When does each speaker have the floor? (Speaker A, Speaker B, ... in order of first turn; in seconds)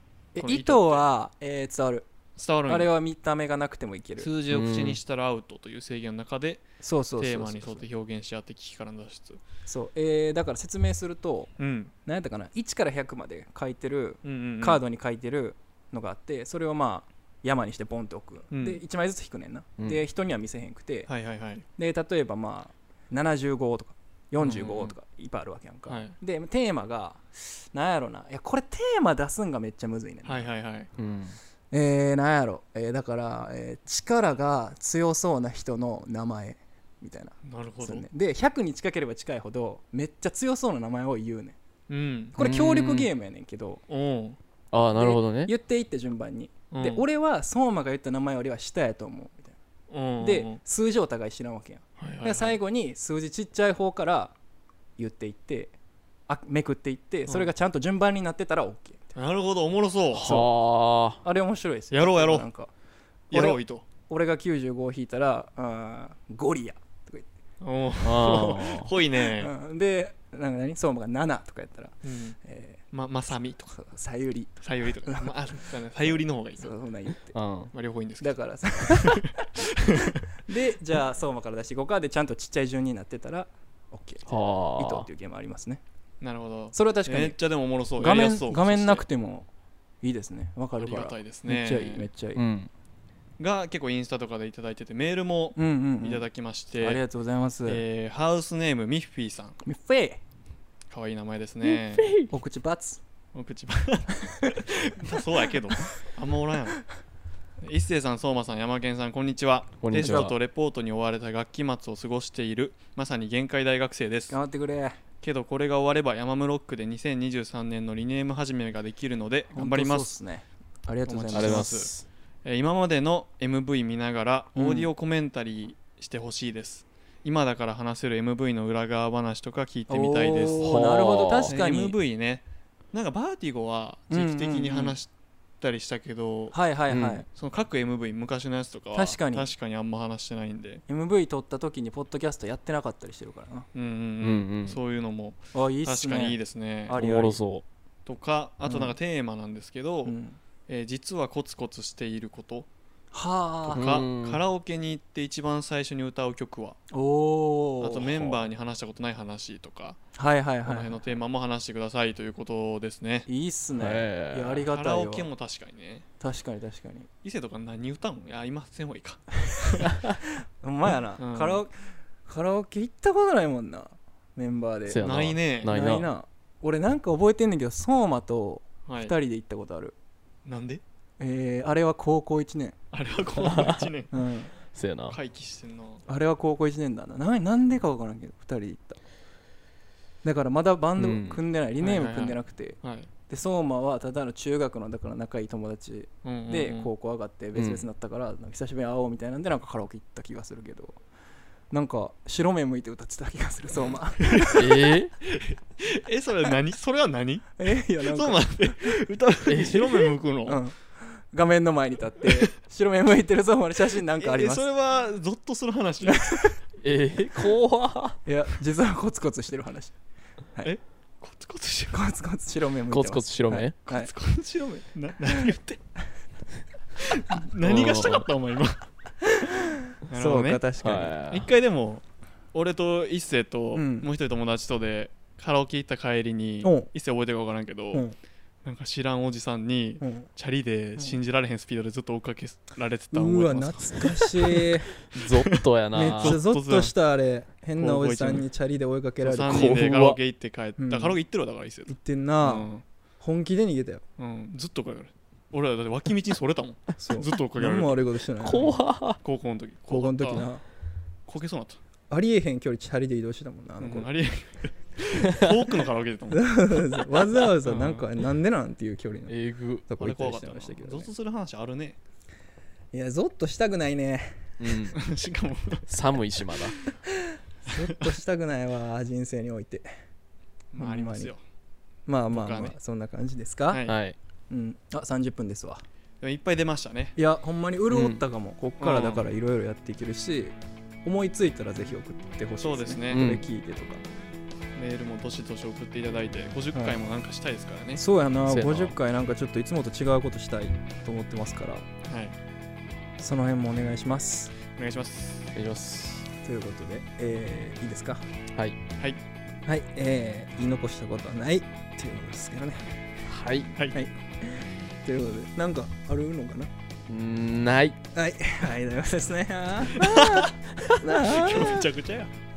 Speaker A: 0.3-2.1, 2.7-4.3, 6.8-7.8, 9.7-11.5, 12.1-21.1, 21.8-30.5, 31.7-41.6, 42.3-43.8, 44.9-49.5, 50.2-54.3, 55.0-55.7, 56.3-59.1, 60.2-60.5, 61.2-62.7, 63.3-67.3, 69.3-72.8, 73.7-77.4, 78.2-79.7, 80.5-85.8, 86.7-87.4, 88.0-89.5, 90.0-92.4, 95.5-96.3, 96.8-97.8, 99.6-100.2, 102.3-103.0, 104.2-104.5, 114.3-115.0, 119.5-121.7, 124.5-124.9, 129.9-131.9, 134.1-135.0, 136.5-137.2, 138.9-139.5, 140.9-143.7, 145.5-147.4, 148.7-148.9, 150.0-150.4, 153.1-153.9, 156.9-158.2, 160.1-161.0, 163.3-165.3, 166.2-167.1, 169.5-171.7, 172.2-175.1, 175.6-179.9, 181.2-182.8, 184.1-184.5, 186.1-189.0, 190.2-201.0, 201.7-204.7, 207.6-209.0, 210.4-214.7, 216.0-216.6, 218.2-219.9, 221.9-224.1, 229.2-231.2, 233.7-234.1, 236.6-236.9, 240.0-240.3, 243.1-244.9, 245.9-249.8, 250.8-251.2, 251.9-252.7, 253.2-254.0, 257.0-258.8, 259.9-260.6, 262.1-264.1, 266.3-269.3, 269.9-271.1, 272.9-274.5, 277.0-279.9, 280.8-281.3, 282.1-283.8, 284.5-285.8, 287.1-294.1, 297.9-301.8, 303.2-304.5, 306.4-308.2, 309.6-313.0, 313.9-316.7, 318.1-321.9
Speaker B: 0.4-1.1, 2.4-2.9, 4.2-6.6, 7.2-9.4, 11.6-11.9, 14.2-14.8, 18.5-18.8, 21.1-21.6, 24.4-24.9, 25.9-26.1, 30.2-30.9, 37.4-38.1, 41.9-42.4, 43.9-44.4, 46.7-47.0, 49.9-50.6, 52.0-52.5, 59.1-60.4, 61.9-62.5, 63.3-63.8, 67.6-69.5, 72.0-72.4, 72.9-73.8, 74.6-76.7, 77.7-80.2, 86.2-89.0, 90.8-92.1, 93.4-97.0, 97.7-99.6, 100.9-102.1, 103.3-106.8, 107.6-114.4, 115.2-120.1, 121.0-121.9, 122.4-130.8, 131.5-136.6, 137.3-140.8, 143.7-147.0, 148.1-150.2, 150.7-152.7, 153.6-156.8, 157.8-160.0, 160.6-163.3, 164.6-166.0, 167.2-170.0, 171.1-171.6, 175.0-175.7, 178.9-179.1, 180.4-180.8, 182.9-184.1, 185.1-186.0, 191.8-193.1, 196.2-196.9, 203.8-207.5, 208.0-210.6, 214.2-216.5, 220.6-222.0, 223.8-225.8, 227.0-228.9, 230.1-230.6, 231.3-238.1, 238.6-244.8, 245.4-246.9, 247.8-248.4, 249.2-252.8, 254.2-258.0, 259.2-260.4, 261.3-261.8, 263.8-267.0, 267.6-268.1, 270.0-272.0, 274.9-275.8, 277.7-278.1, 280.7-281.4, 282.3-282.8, 283.7-284.0, 286.2-287.1, 288.8-289.2, 292.6-293.2, 294.8-298.0, 302.1-302.3, 304.8-305.5, 313.7-314.0, 319.9-320.6, 321.2-322.3
Speaker C: 4.5-5.0, 31.0-31.4, 42.4-43.1, 44.7-45.5, 60.1-61.2, 68.0-68.9, 77.3-77.7, 84.3-85.1, 92.3-92.7, 101.6-102.3, 109.8-110.4, 121.3-122.0, 130.6-131.5, 136.9-137.2, 144.2-144.8, 146.9-147.6, 153.7-154.4, 163.8-164.6, 174.9-176.1, 183.5-183.9, 184.7-185.2, 191.0-191.4, 197.5-197.9, 204.5-205.1, 209.5-210.1, 216.8-218.2, 222.9-223.8, 227.7-228.3, 230.8-231.5, 245.1-246.4, 249.4-250.2, 258.4-259.2, 269.3-269.9, 274.6-275.0, 275.9-276.8, 283.9-284.1, 287.9-288.2, 293.1-293.4, 298.5-298.9, 305.5-306.2, 313.3-313.7, 317.1-318.0